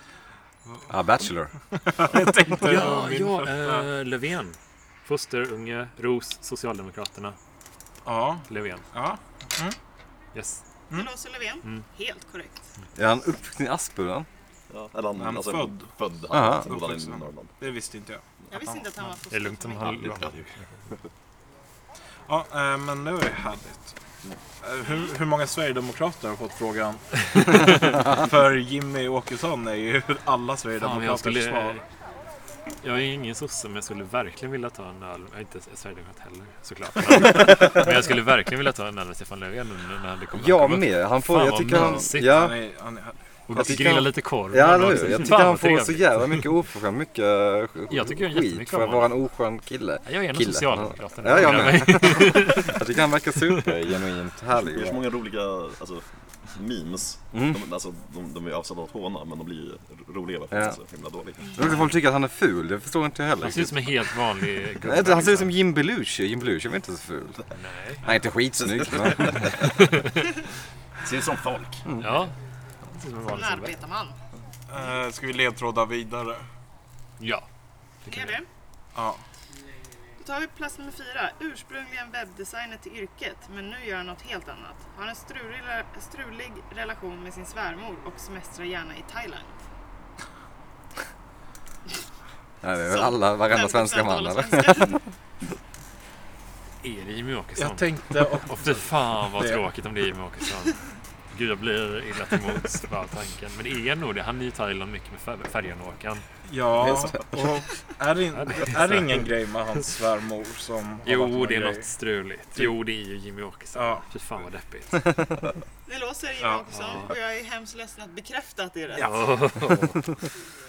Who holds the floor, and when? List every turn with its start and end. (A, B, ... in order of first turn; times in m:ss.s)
0:00.9-0:01.5 A
0:01.8-0:03.9 B
0:02.6-0:07.4 C
0:08.0-0:09.8 B
0:08.5-0:08.8 C
0:10.3-0:10.6 C
0:10.9-0:12.7 D
0:12.9-0:14.3 A
0:14.7-0:17.5 E
0:15.2-0:18.2 B
0:16.3-0:16.7 A
0:18.5-0:20.3 D
0:19.3-0:20.8 C
0:20.0-0:21.0 E
0:22.3-0:24.0 B
0:24.6-0:31.8 B
0:27.3-0:27.7 C
0:30.8-0:31.8 C
0:32.8-0:42.5 C
0:40.3-0:42.6 A
0:42.2-0:44.0 B
0:43.5-0:46.4 C
0:43.5-0:55.0 A
0:47.9-0:49.1 C
0:50.0-0:52.8 C
0:53.4-0:53.7 C
0:54.5-1:01.7 E
0:57.3-0:57.6 A
1:00.5-1:00.8 A
1:01.4-1:03.9 A
1:01.4-1:01.8 D
1:03.4-1:05.6 C
1:04.8-1:07.4 A
1:07.5-1:08.1 C
1:08.0-1:09.6 A
1:08.8-1:09.1 E
1:09.3-1:10.2 C
1:11.0-1:11.9 E
1:12.0-1:12.4 C
1:12.9-1:13.8 C
1:13.3-1:14.2 D
1:14.7-1:16.4 B
1:17.2-1:17.5 C
1:18.0-1:18.4 C
1:18.1-1:18.5 D
1:18.9-1:19.2 B
1:20.2-1:29.6 D
1:32.6-1:35.0 A
1:32.8-1:35.0 D
1:36.8-1:46.2 C
1:37.6-1:39.6 B
1:46.4-1:51.9 B
1:48.3-1:49.2 C
1:51.0-1:55.2 C
1:53.7-1:54.0 B
1:55.8-1:59.3 D
1:56.7-1:57.1 C
1:58.9-2:00.2 C